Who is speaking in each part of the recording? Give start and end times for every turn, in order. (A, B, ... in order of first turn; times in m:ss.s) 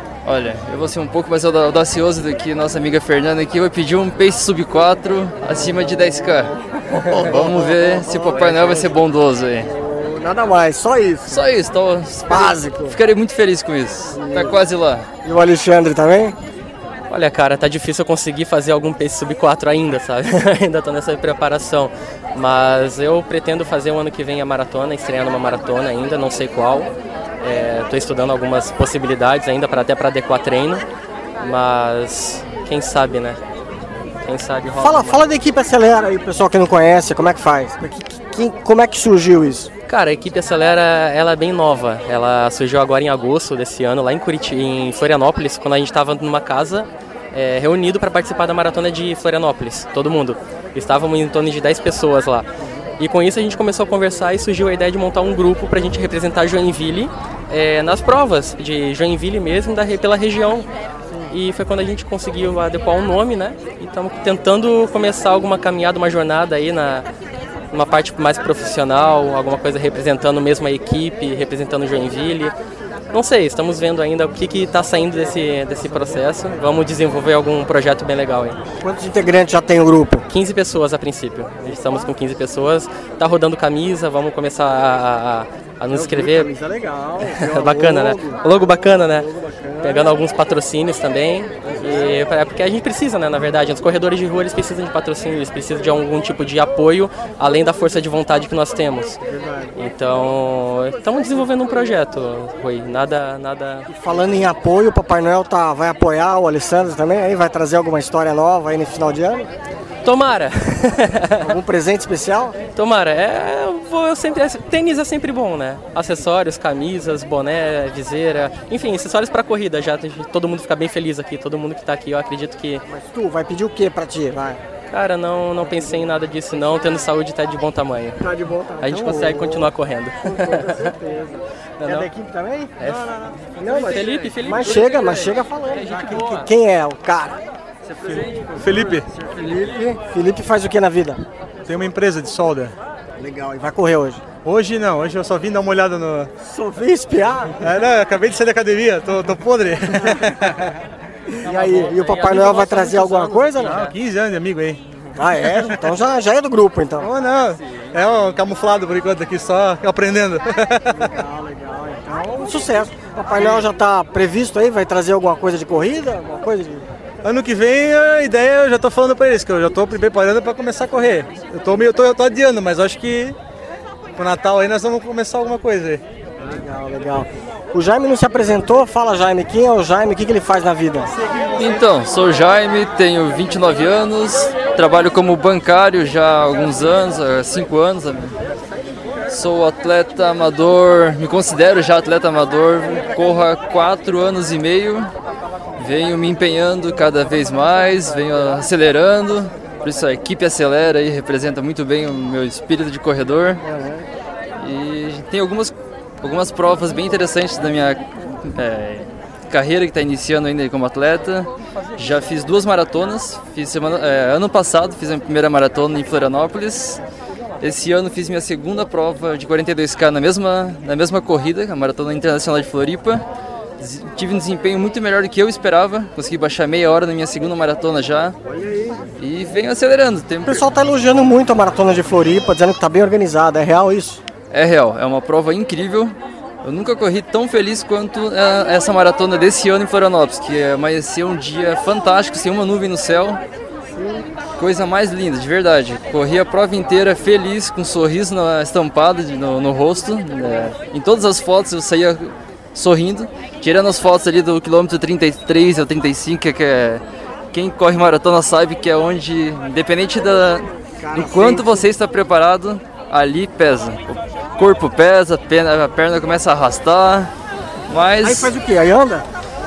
0:00.2-0:06.5 A
0:06.9-0:09.0 B
0:07.1-0:09.7 A
0:09.6-0:11.5 B
0:11.3-0:15.1 A
0:12.3-0:13.0 B
0:14.1-0:14.6 B
0:15.2-0:16.4 B
0:17.1-0:30.8 C
0:31.4-0:33.4 C
0:34.2-0:35.3 C
0:34.8-0:39.7 B
0:39.9-0:52.5 C
0:52.6-0:52.9 B
0:53.0-1:00.7 C
1:01.3-1:07.1 C
1:07.7-1:12.6 C
1:13.1-1:18.6 C
1:18.8-1:20.3 B
1:20.3-1:26.5 C
1:25.9-1:28.4 B
1:27.4-1:29.3 C
1:29.4-1:30.0 B
1:29.8-1:39.2 C
1:39.8-1:43.9 C
1:43.9-1:49.5 B
1:50.0-1:51.5 C
1:51.4-1:52.6 B
1:52.8-2:02.8 C
2:02.9-2:04.6 B
2:04.9-2:08.2 C
2:08.2-2:09.7 B
2:08.8-2:10.9 C
2:10.2-2:12.8 B
2:11.8-2:12.1 C
2:12.8-2:15.3 C
2:13.6-2:17.4 B
2:18.5-2:19.1 D
2:19.2-2:21.2 B
2:21.6-2:22.8 D
2:23.2-2:24.2 B
2:24.4-2:26.3 D
2:26.4-2:27.6 B
2:27.6-2:30.7 D
2:31.4-2:33.9 B
2:31.7-2:33.9 C
2:33.6-2:34.8 D
2:35.2-2:37.1 B
2:37.0-2:41.0 D
2:41.0-2:46.9 B
2:43.4-2:43.6 D
2:47.2-2:53.4 D
2:54.2-2:56.0 D
2:56.4-3:01.1 B
3:01.6-3:08.4 A
3:09.3-3:15.1 A
3:15.8-3:23.6 A
3:23.6-3:24.1 B
3:24.6-3:37.0 A
3:37.6-3:43.2 A
3:43.8-3:48.4 A
3:48.5-3:49.0 B
3:49.2-3:50.6 A
3:50.4-3:54.2 B
3:54.5-4:03.4 A
4:04.0-4:04.2 B
4:04.6-4:27.3 A
4:21.0-4:21.9 B
4:27.9-4:28.5 A
4:28.2-4:29.3 B